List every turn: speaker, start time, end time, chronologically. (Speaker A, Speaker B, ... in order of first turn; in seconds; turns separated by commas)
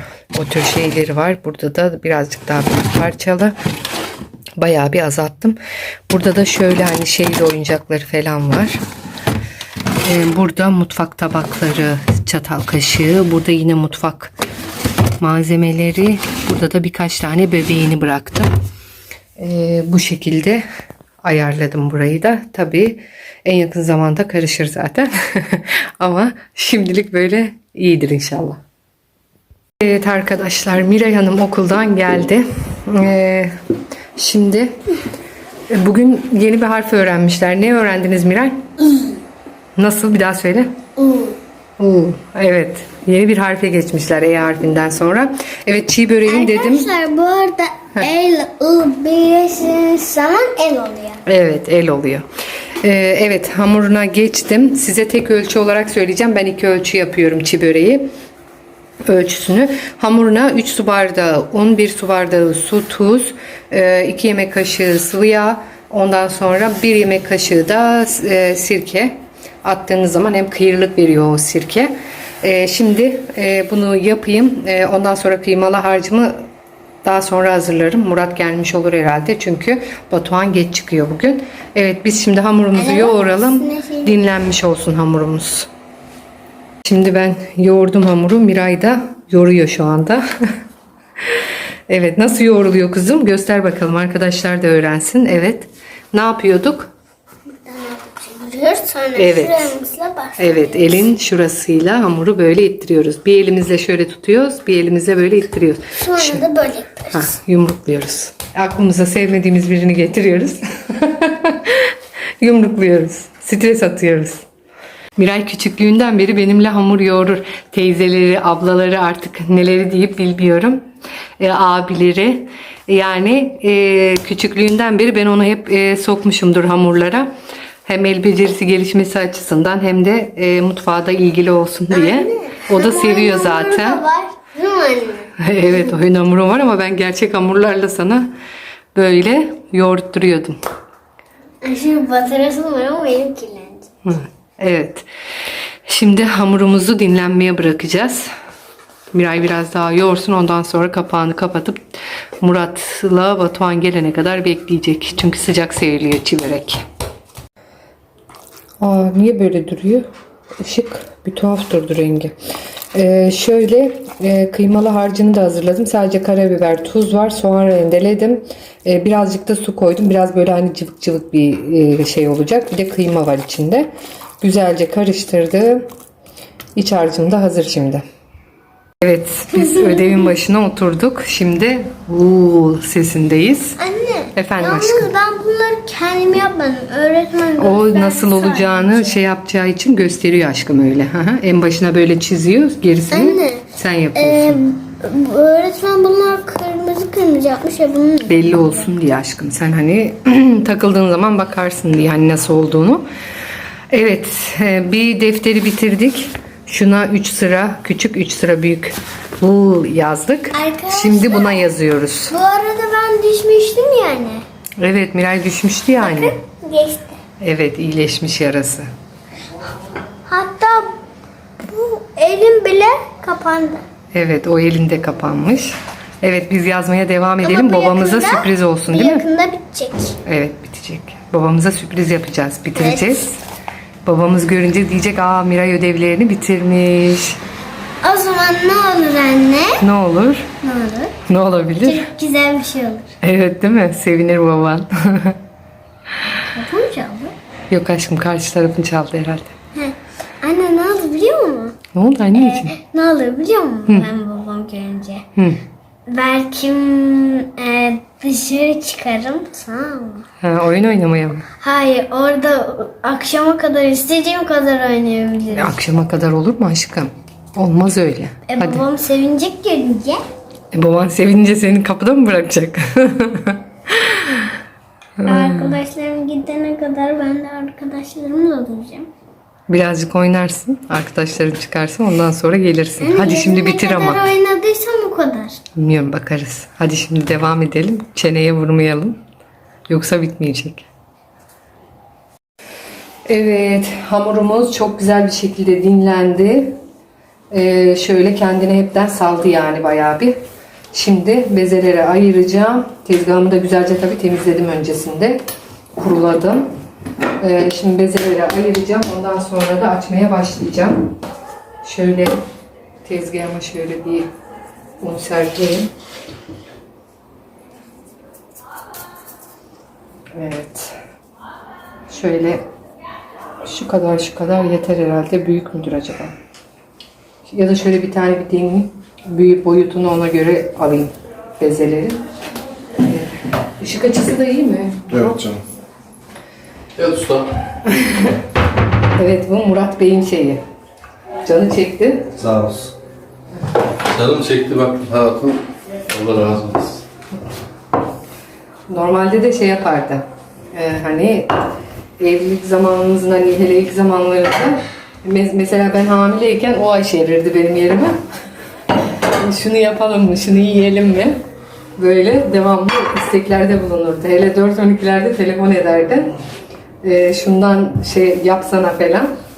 Speaker A: 0.3-3.5, Speaker A: 4.6-5.6, Speaker A: 6.1-8.8, Speaker A: 10.0-14.3, Speaker A: 15.2-18.5, Speaker A: 19.4-20.6, Speaker A: 21.2-28.6, Speaker A: 29.8-33.5, Speaker A: 34.1-34.7, Speaker A: 35.7-38.7, Speaker A: 39.8-40.7, Speaker B: 41.0-41.4, Speaker A: 41.8-46.9, Speaker B: 46.3-51.2, Speaker A: 51.2-52.2, Speaker A: 52.8-58.1, Speaker A: 59.0-76.5, Speaker A: 77.0-85.7, Speaker B: 82.7-84.2, Speaker A: 86.8-90.2, Speaker A: 91.9-96.9, Speaker B: 97.6-101.0, Speaker A: 99.1-99.7, Speaker A: 100.4-106.5, Speaker B: 106.0-107.2, Speaker A: 107.1-114.5, Speaker A: 115.2-120.8, Speaker A: 121.4-127.3, Speaker A: 127.8-134.0, Speaker B: 131.9-135.3, Speaker A: 135.4-138.3, Speaker A: 138.9-140.6, Speaker B: 141.6-143.8, Speaker A: 144.0-145.1, Speaker A: 145.8-148.3, Speaker A: 149.1-156.8, Speaker A: 158.8-160.1, Speaker A: 160.6-162.3, Speaker A: 162.9-173.9, Speaker A: 174.4-175.9, Speaker A: 176.8-178.0, Speaker A: 179.0-183.8, Speaker B: 179.7-180.1, Speaker B: 183.8-189.2, Speaker A: 184.3-185.1, Speaker A: 187.6-194.6, Speaker B: 193.1-198.3, Speaker A: 198.2-203.0, Speaker A: 203.9-212.3, Speaker B: 210.5-211.7, Speaker B: 212.3-214.4, Speaker A: 214.8-216.3, Speaker B: 216.0-217.2, Speaker A: 217.4-218.9, Speaker B: 220.3-221.0, Speaker B: 221.6-223.8, Speaker A: 224.1-229.2, Speaker B: 227.4-230.2, Speaker A: 230.2-233.4, Speaker B: 232.8-233.1, Speaker A: 234.0-237.4, Speaker B: 238.0-239.8, Speaker A: 239.8-240.5, Speaker B: 240.6-241.1, Speaker A: 241.2-242.1, Speaker B: 241.8-243.1, Speaker A: 243.2-245.4, Speaker B: 246.5-247.3, Speaker A: 247.7-249.5, Speaker B: 249.7-251.8, Speaker A: 251.9-252.8, Speaker B: 252.3-255.2, Speaker A: 255.3-255.6, Speaker B: 256.1-260.2, Speaker A: 260.4-261.5, Speaker B: 261.6-265.7, Speaker A: 265.5-268.9, Speaker B: 268.5-270.2, Speaker A: 270.7-274.6, Speaker A: 275.2-275.8, Speaker B: 275.2-279.1, Speaker A: 279.7-284.3, Speaker B: 283.0-285.6, Speaker A: 285.7-289.2, Speaker A: 289.9-290.9, Speaker A: 293.2-296.8, Speaker A: 297.5-300.4, Speaker A: 300.9-305.4, Speaker A: 305.9-306.6, Speaker A: 307.4-311.1, Speaker A: 311.8-312.4, Speaker A: 313.0-314.3, Speaker A: 315.0-315.9, Speaker A: 320.3-321.0, Speaker A: 322.1-322.6, Speaker A: 323.6-326.3, Speaker A: 327.4-332.2, Speaker A: 333.0-335.4, Speaker C: 335.1-335.6, Speaker C: 336.9-337.6, Speaker A: 337.9-338.4, Speaker A: 339.1-340.6, Speaker A: 341.4-342.3, Speaker C: 342.4-342.9, Speaker C: 344.1-347.0, Speaker A: 348.9-351.5, Speaker A: 352.2-358.2, Speaker A: 359.3-361.4, Speaker A: 362.0-366.3, Speaker A: 367.0-369.3